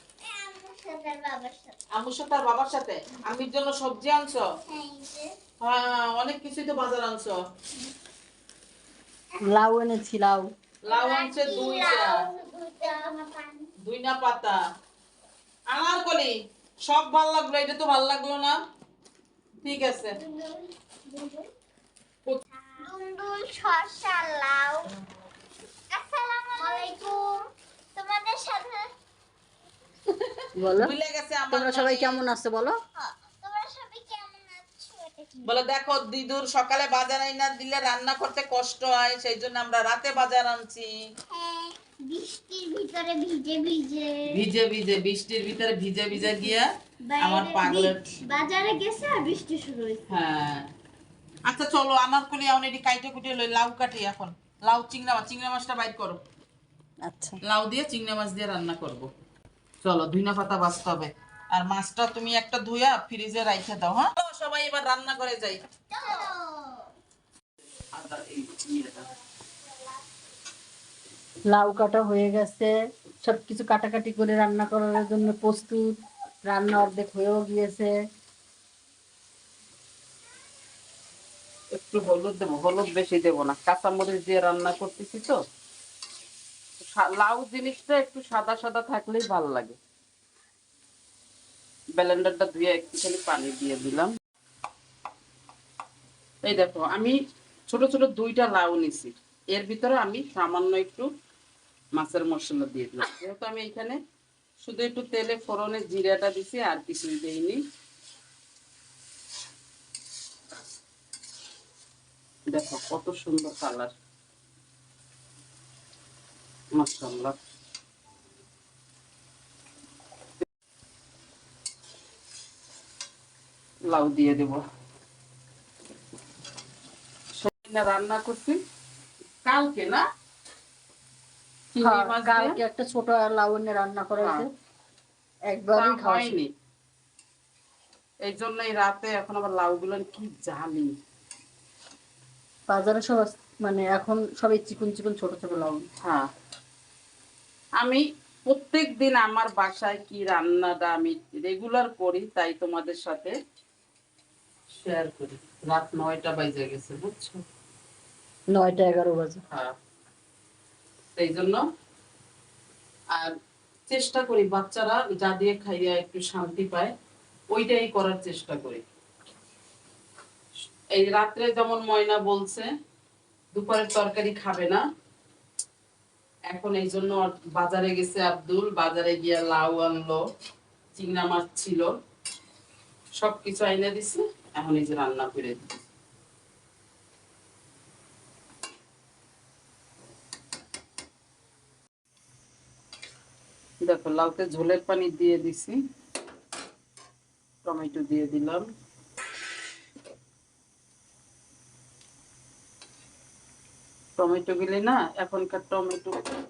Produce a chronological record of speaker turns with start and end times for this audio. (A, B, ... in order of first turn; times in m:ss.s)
0:00.2-0:01.8 A
0:01.9-0:04.4 B
0:04.6-0:05.3 A
0:05.6-0:07.4 B
0:09.4-0:10.5 C
0:10.8-0:12.2 B
0:10.9-0:13.7 A
0:13.8-0:14.6 B
0:15.7-0:18.6 B
0:19.6-0:20.2 B
0:20.2-0:21.5 A
0:22.8-0:24.9 A
0:25.9-0:27.4 A
0:27.9-0:28.9 A
0:30.6-0:30.9 C
0:30.7-0:32.2 B
0:31.5-0:32.8 C
0:33.0-0:35.5 A
0:35.4-0:41.0 B
0:41.3-0:44.2 A
0:44.3-0:46.7 B
0:46.2-0:46.5 A
0:47.0-0:50.0 A
0:47.2-0:48.0 B
0:50.1-0:50.7 B
0:51.4-0:56.2 B
0:57.0-0:57.4 C
0:57.4-0:59.1 B
0:59.8-1:05.6 B
1:05.9-1:06.9 A
1:07.9-1:09.0 B
1:11.5-1:17.9 C
1:21.7-1:25.4 B
1:26.8-1:29.8 B
1:32.0-1:34.1 B
1:36.4-1:37.2 B
1:37.7-1:41.1 B
1:42.0-1:44.0 B
1:44.6-1:47.6 B
1:52.5-1:53.9 B
1:56.7-1:57.4 B
2:03.9-2:04.6 B
2:07.4-2:08.6 B
2:09.4-2:10.0 B
2:11.7-2:12.6 B
2:11.8-2:14.4 C
2:14.2-2:14.4 B
2:15.5-2:16.3 C
2:15.7-2:16.5 B
2:18.2-2:20.9 B
2:22.7-2:25.9 C
2:27.8-2:33.3 B
2:34.7-2:37.4 B
2:38.5-2:39.4 C
2:41.2-2:41.6 B
2:43.9-2:46.9 B
2:47.5-2:48.8 B
2:50.9-2:52.7 B
2:53.5-2:54.8 B
2:56.5-3:00.2 B
3:01.0-3:02.0 B
3:03.2-3:05.7 B
3:13.8-3:15.8 B
3:17.6-3:18.7 B
3:24.2-3:26.2 B